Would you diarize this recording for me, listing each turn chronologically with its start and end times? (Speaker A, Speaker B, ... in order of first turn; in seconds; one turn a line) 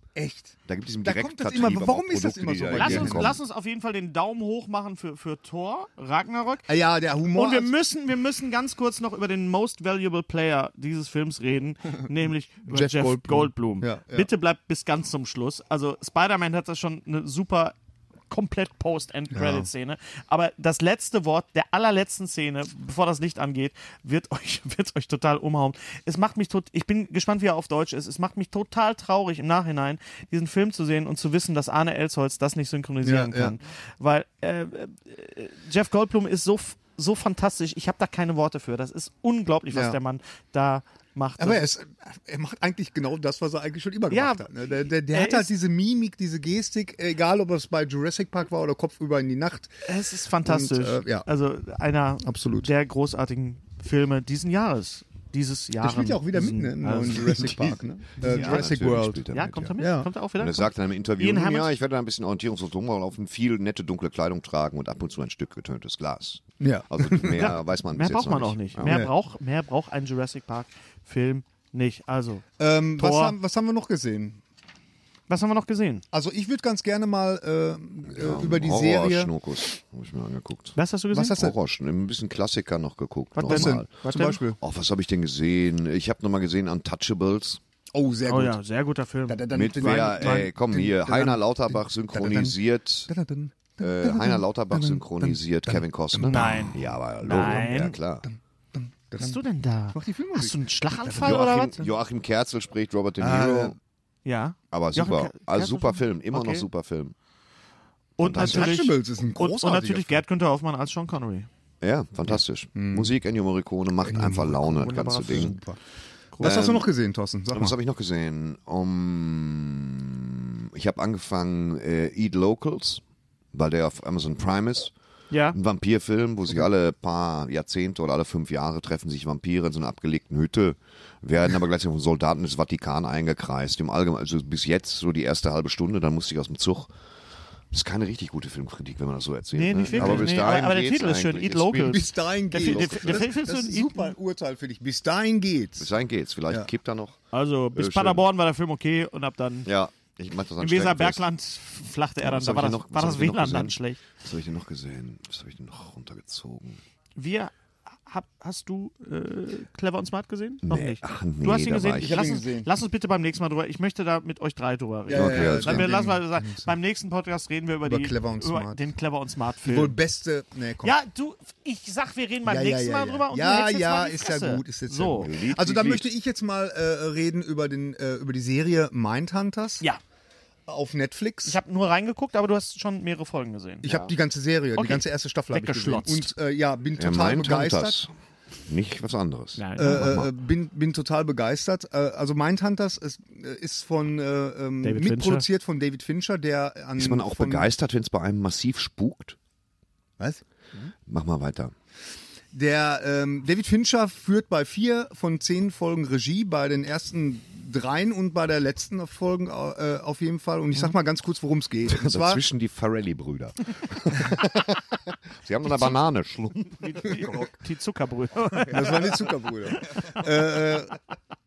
Speaker A: 0.1-3.4
Speaker B: 0.7-3.4
Speaker C: 2.7-6.7
Speaker A: 6.7-7.7
Speaker C: 7.3-17.8
Speaker A: 12.7-14.3
Speaker C: 18.3-41.6
Speaker A: 19.3-19.7
Speaker A: 33.0-33.6
Speaker A: 39.7-40.0
Speaker A: 41.4-49.8
Speaker C: 44.1-45.5
Speaker C: 49.9-58.7
Speaker A: 50.4-51.3
Speaker A: 52.2-52.7
Speaker A: 55.8-60.1
Speaker B: 58.2-59.8
Speaker C: 59.3-61.8
Speaker B: 60.4-69.0
Speaker A: 66.6-67.5
Speaker C: 67.4-72.5
Speaker A: 68.8-69.1
Speaker A: 72.6-74.4
Speaker C: 73.0-73.4
Speaker C: 75.3-76.0
Speaker A: 76.1-79.3
Speaker B: 78.1-83.9
Speaker C: 80.8-81.4
Speaker A: 81.1-81.5
Speaker C: 83.4-84.4
Speaker A: 83.5-84.6
Speaker B: 84.6-87.6
Speaker A: 87.9-88.6
Speaker C: 88.3-90.5
Speaker A: 89.3-92.6
Speaker B: 89.5-93.1
Speaker A: 93.1-97.7
Speaker B: 93.8-98.3
Speaker C: 96.2-98.0
Speaker A: 98.2-99.4
Speaker C: 99.2-101.8
Speaker A: 99.9-101.9
Speaker B: 101.2-103.8
Speaker A: 103.2-103.8
Speaker C: 104.2-106.7
Speaker B: 104.7-107.2
Speaker C: 108.2-111.5
Speaker B: 108.2-108.8
Speaker A: 108.4-110.2
Speaker B: 111.8-115.5
Speaker A: 112.3-113.1
Speaker A: 114.0-115.8
Speaker C: 114.8-115.6
Speaker A: 116.4-117.8
Speaker B: 116.4-116.9
Speaker B: 117.5-123.0
Speaker B: 123.5-124.9
Speaker C: 125.3-125.6
Speaker B: 125.5-136.9
Speaker B: 137.7-143.3
Speaker C: 139.5-144.1
Speaker A: 139.9-140.4
Speaker A: 141.9-145.9
Speaker B: 145.8-147.2
Speaker C: 147.3-149.7
Speaker B: 147.7-148.2
Speaker B: 149.7-151.2
Speaker C: 150.6-154.0
Speaker B: 152.2-156.8
Speaker C: 157.2-157.5
Speaker C: 158.1-170.0
Speaker B: 160.7-162.3
Speaker A: 162.0-162.7
Speaker B: 165.1-165.9
Speaker A: 165.1-166.7
Speaker A: 167.8-168.8
Speaker A: 169.6-171.0
Speaker C: 170.8-175.3
Speaker A: 172.4-179.8
Speaker B: 175.2-176.1
Speaker A: 180.7-181.6
Speaker C: 181.4-184.1
Speaker A: 183.8-188.0
Speaker C: 184.8-186.3
Speaker B: 187.0-188.1
Speaker B: 188.7-190.3
Speaker C: 189.6-190.2
Speaker A: 189.8-197.7
Speaker C: 194.8-195.5
Speaker B: 197.0-199.4
Speaker B: 201.1-201.7
Speaker A: 202.5-212.4
Speaker B: 211.8-217.5
Speaker C: 216.7-220.1
Speaker A: 218.7-220.9
Speaker B: 219.8-220.1